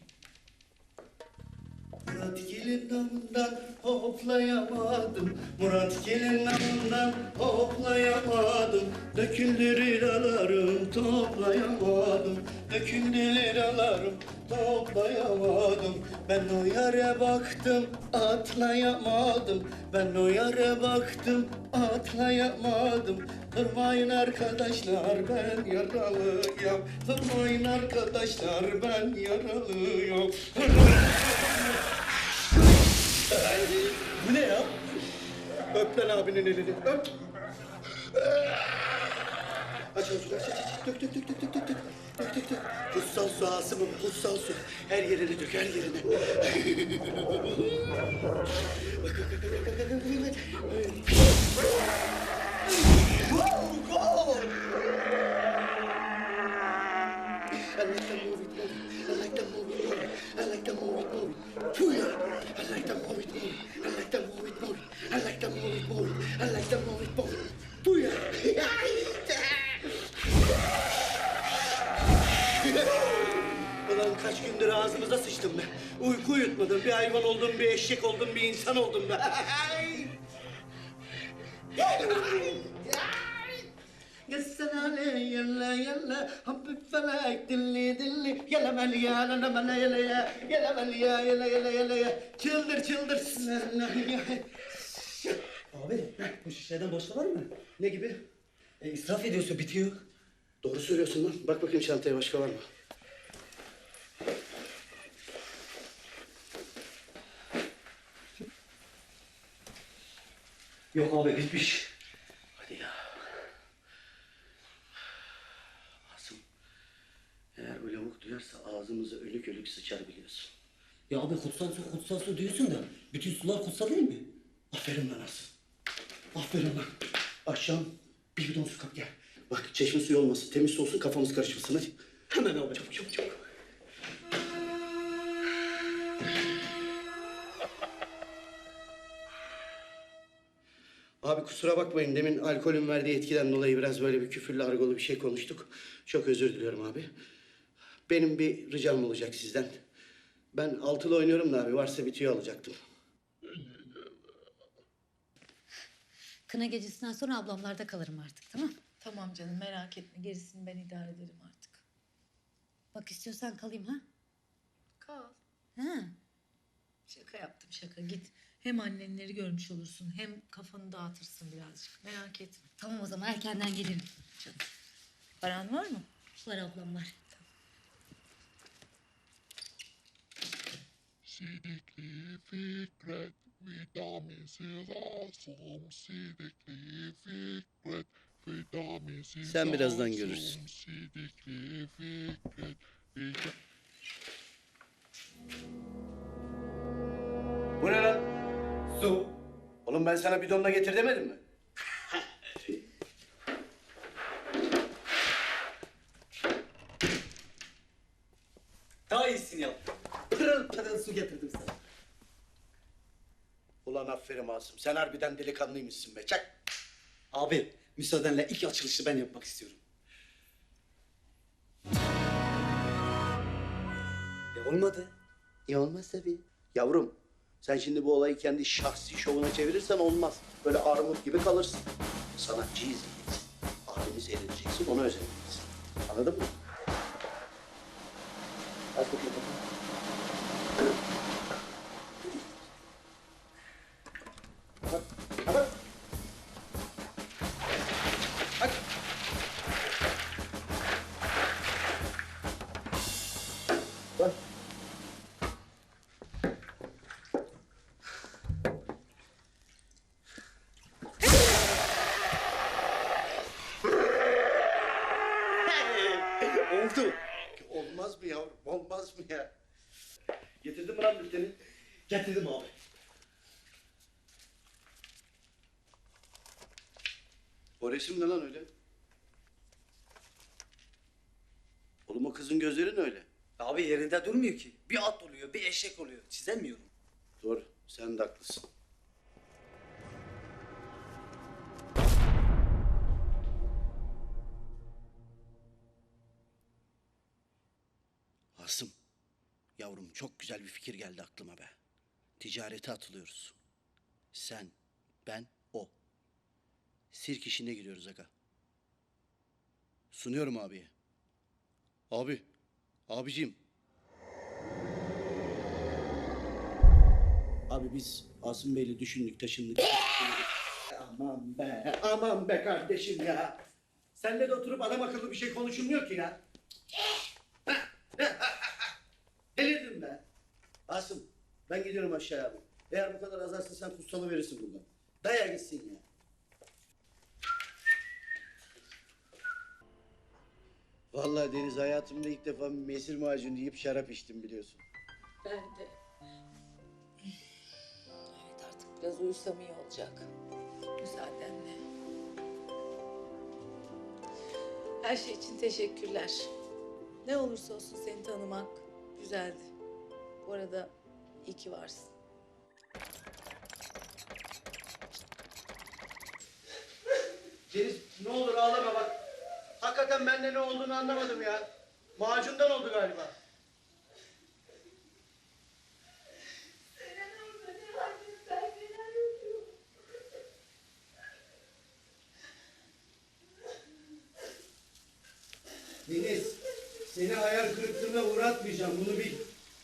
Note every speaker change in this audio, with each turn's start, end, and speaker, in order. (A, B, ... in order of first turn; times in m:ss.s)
0:02.0-0:31.8 A
0:33.2-0:34.8 A
0:35.7-0:37.1 A
0:39.9-0:48.0 A
0:48.6-0:51.3 A
0:53.1-0:54.6 A
0:57.7-1:09.8 A
1:12.5-1:20.2 A
1:21.8-1:23.7 A
1:24.3-1:35.2 A
1:35.7-1:37.5 B
1:37.8-1:38.2 A
1:38.8-1:40.0 B
1:40.6-1:42.6 A
1:50.9-1:51.9 B
1:52.6-1:53.0 A
1:56.0-1:56.4 A
1:57.6-2:00.5 A
2:01.1-2:04.2 B
2:04.7-2:05.5 A
2:06.3-2:06.9 A
2:07.4-2:11.9 A
2:12.3-2:13.3 B
2:21.2-2:27.1 A
2:28.1-2:29.8 A
2:30.5-2:32.7 A
2:36.5-2:38.8 C
2:39.0-2:41.8 D
2:42.9-2:44.0 C
2:45.0-2:45.4 D
2:45.8-2:46.1 C
2:47.1-2:52.7 D
2:52.8-2:54.6 C
2:55.4-2:56.1 D
2:56.4-2:57.1 C
3:01.3-3:13.5 E
3:09.4-3:10.6 A
3:17.8-3:18.3 A
3:19.8-3:21.4 A
3:29.1-3:29.8 B
3:30.3-3:31.7 B
3:33.8-3:36.5 A
3:37.3-3:39.8 B
3:44.5-3:45.1 B
3:45.7-3:56.5 A
3:58.9-3:59.6 A
4:04.9-4:05.7 A
4:25.7-4:27.2 B
4:27.5-4:29.5 A
4:30.6-4:31.5 A
4:32.1-4:32.7 B
4:32.2-4:32.6 A
4:37.8-4:38.7 A
4:42.1-4:43.3 A
4:43.6-4:46.9 B
4:47.4-4:48.7 A
4:58.6-4:58.9 A
4:59.8-5:01.7 A
5:02.4-5:03.6 A
5:04.3-5:04.7 A
5:05.2-5:05.9 A
5:07.1-5:08.3 A
5:10.1-5:10.9 A
5:12.1-5:12.4 A
5:13.1-5:13.6 A
5:17.7-5:23.6 A
5:24.2-5:26.4 A
5:27.7-5:28.9 A
5:29.6-5:30.2 A
5:30.9-5:36.0 A
5:41.1-5:44.8 A
5:45.4-5:46.0 D
5:48.4-5:50.3 D
5:51.0-5:51.8 D
5:55.0-5:56.5 D
5:57.2-5:59.7 D
6:00.4-6:00.9 D
6:01.4-6:02.1 D
6:07.7-6:09.1 A
6:09.8-6:11.6 A
6:12.2-6:13.3 A
6:26.0-6:29.4 A